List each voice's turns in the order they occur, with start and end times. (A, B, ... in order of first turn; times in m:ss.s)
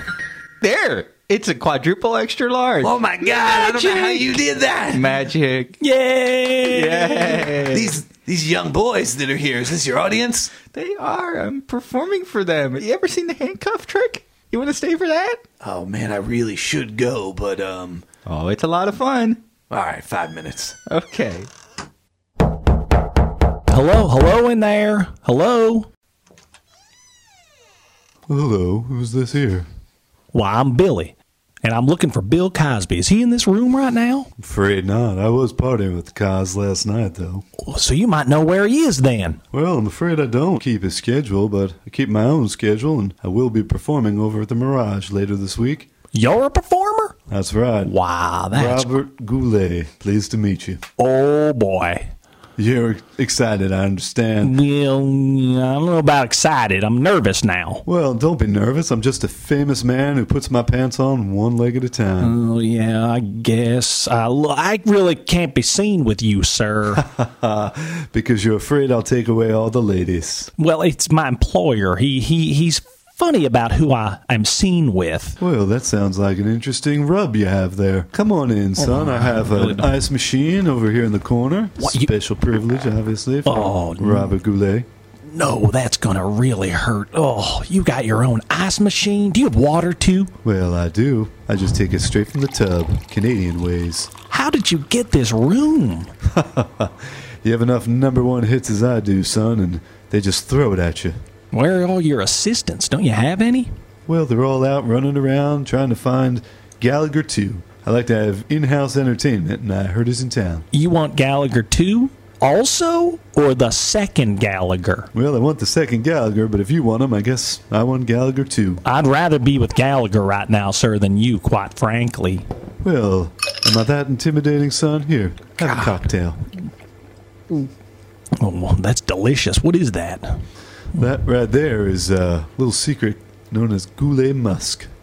0:00.6-0:03.0 A
0:02.8-0:05.2 B
0:03.7-0:04.2 A
0:04.9-0:05.8 A
0:05.8-0:07.5 C
0:06.7-0:07.9 A
0:07.5-0:10.5 B
0:10.7-0:15.4 A
0:15.6-0:18.0 B
0:18.3-0:19.4 A
0:19.7-0:20.8 B
0:20.9-0:21.5 A
0:23.7-0:25.9 C
0:28.3-0:29.7 D
0:30.3-0:34.3 C
0:34.4-0:37.4 D
0:37.6-0:39.4 C
0:39.5-0:45.9 D
0:46.1-0:47.2 C
0:47.3-0:47.9 D
0:47.8-0:48.9 C
0:48.5-0:50.8 D
0:51.0-0:52.1 C
0:52.6-0:54.6 D
0:54.4-0:57.8 C
0:57.9-1:02.4 D
1:02.2-1:07.0 C
1:07.0-1:10.5 D
1:10.6-1:15.4 C
1:15.4-1:24.9 D
1:18.8-1:20.0 C
1:21.8-1:22.1 C
1:23.4-1:24.3 C
1:25.3-1:30.3 C
1:30.4-1:34.1 D
1:34.3-1:36.1 C
1:36.3-1:41.2 D
1:41.5-1:43.7 C
1:44.1-1:50.6 D
1:50.7-1:55.1 C
1:55.1-1:58.8 D
1:58.8-2:02.5 C
2:02.8-2:06.4 D
2:08.4-2:10.4 C
2:11.0-2:14.9 D